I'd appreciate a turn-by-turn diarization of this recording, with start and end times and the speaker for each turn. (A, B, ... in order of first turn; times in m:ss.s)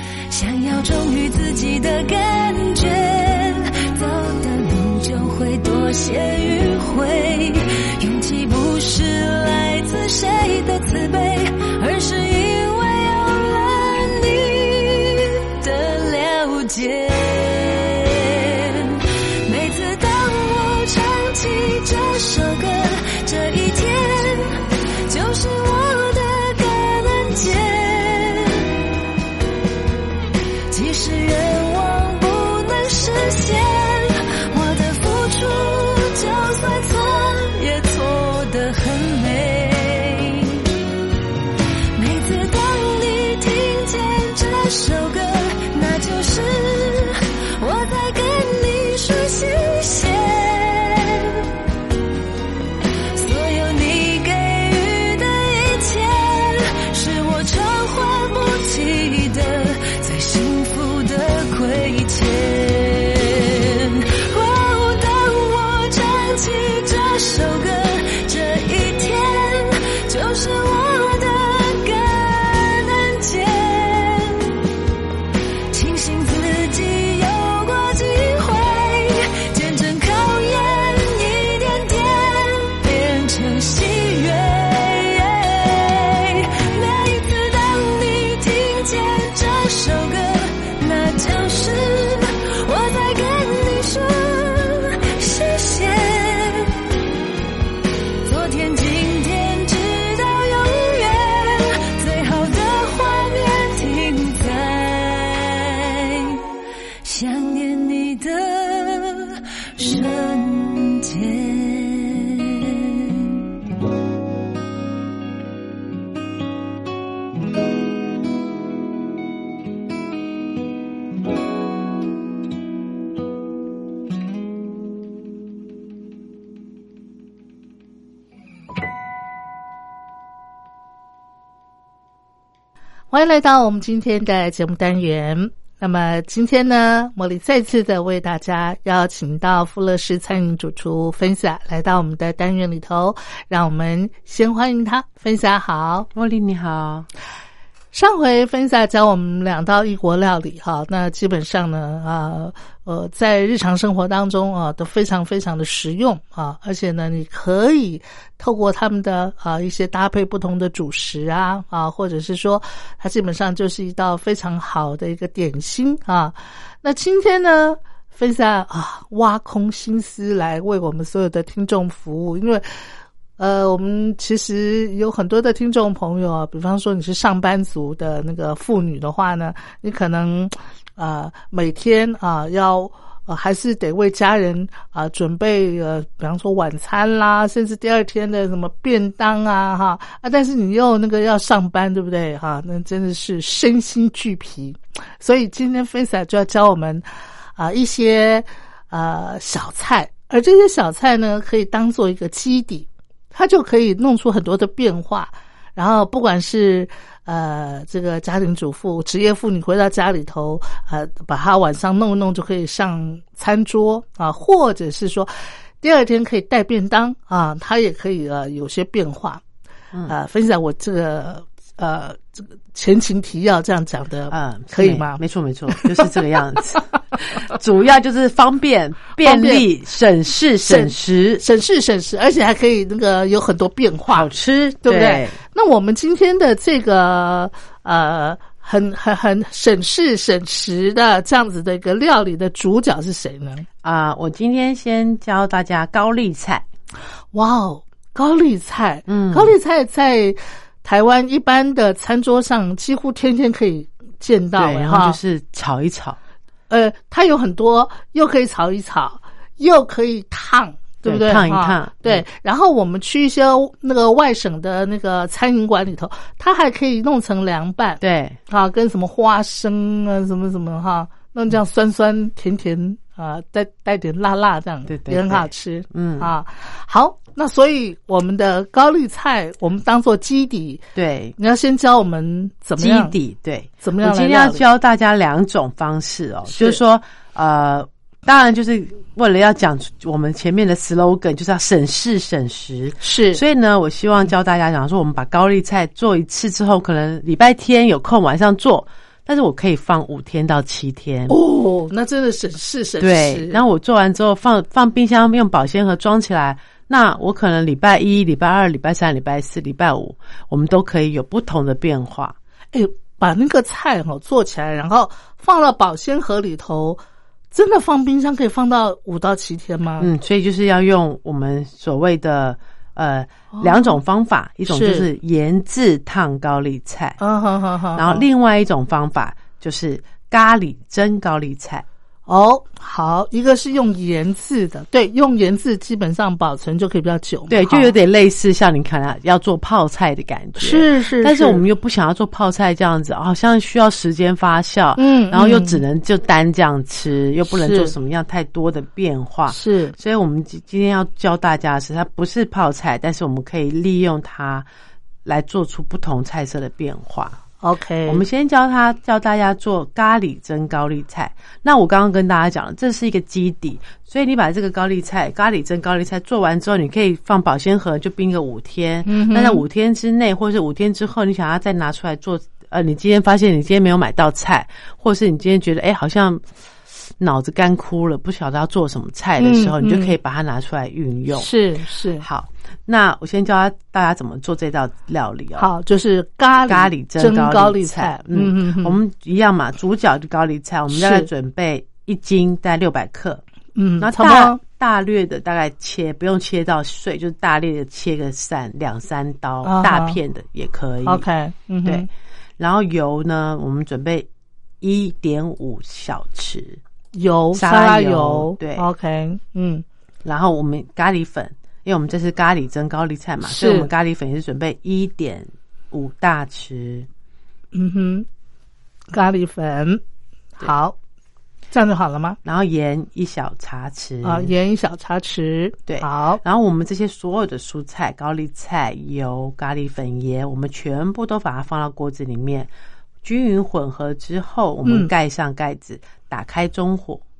0:00.3-0:28.8 A
0:30.7-0:40.7 A
0:42.0-0:51.5 A
0:53.2-1:14.6 A
1:15.7-1:36.8 A
1:38.2-1:46.4 A
1:47.0-1:53.4 A
2:13.1-2:26.1 B
2:26.1-2:27.1 C
2:27.9-2:52.7 B
2:53.4-3:39.4 B
3:40.1-3:45.2 B
3:44.3-3:51.4 C
3:45.8-3:46.0 B
3:49.2-3:49.6 B
3:50.7-3:54.3 B
3:54.1-3:55.4 C
3:54.8-4:03.7 B
4:03.8-4:06.6 C
4:07.3-4:15.2 B
4:09.1-4:09.6 C
4:14.6-4:16.2 C
4:16.7-4:43.2 B
4:21.0-4:22.2 C
4:28.0-4:28.4 C
4:34.9-4:36.3 C
4:41.0-4:41.4 C
4:42.8-5:01.4 C
4:43.8-4:44.6 B
4:46.5-4:46.8 B
4:53.0-4:53.4 B
5:01.3-5:03.6 B
5:03.0-5:12.4 C
5:12.7-5:17.0 B
5:17.5-5:20.1 B
5:20.0-5:27.2 C
5:23.6-5:24.0 B
5:24.7-5:25.1 B
5:27.2-5:28.2 B
5:28.0-5:31.8 C
5:32.3-5:37.9 B
5:37.5-5:54.7 C
5:40.6-5:41.6 B
5:45.0-5:45.8 B
5:47.5-5:47.9 B
5:49.5-5:50.0 B
5:55.2-5:57.4 C
5:57.6-5:58.2 B
5:58.0-6:16.4 C
6:09.1-6:09.6 B
6:17.2-6:21.5 C
6:19.4-6:20.2 B
6:21.4-6:22.3 B
6:22.2-6:25.7 C
6:25.6-6:29.0 B
6:26.7-6:33.4 C
6:30.9-6:31.3 B
6:33.8-6:34.6 B
6:34.0-6:41.2 C
6:39.6-6:40.2 B
6:41.1-6:42.1 B
6:42.6-6:44.3 C
6:44.8-6:46.8 C
6:47.1-6:49.8 B
6:47.5-6:48.9 C
6:50.2-6:57.1 C
6:53.5-6:53.9 B
6:57.7-6:58.3 B
6:59.1-7:00.0 B
7:00.6-7:01.0 B
7:01.7-7:02.4 B
7:02.4-7:04.5 C
7:04.2-7:06.4 B
7:05.9-7:12.7 C
7:13.2-7:17.2 C
7:14.8-7:15.1 B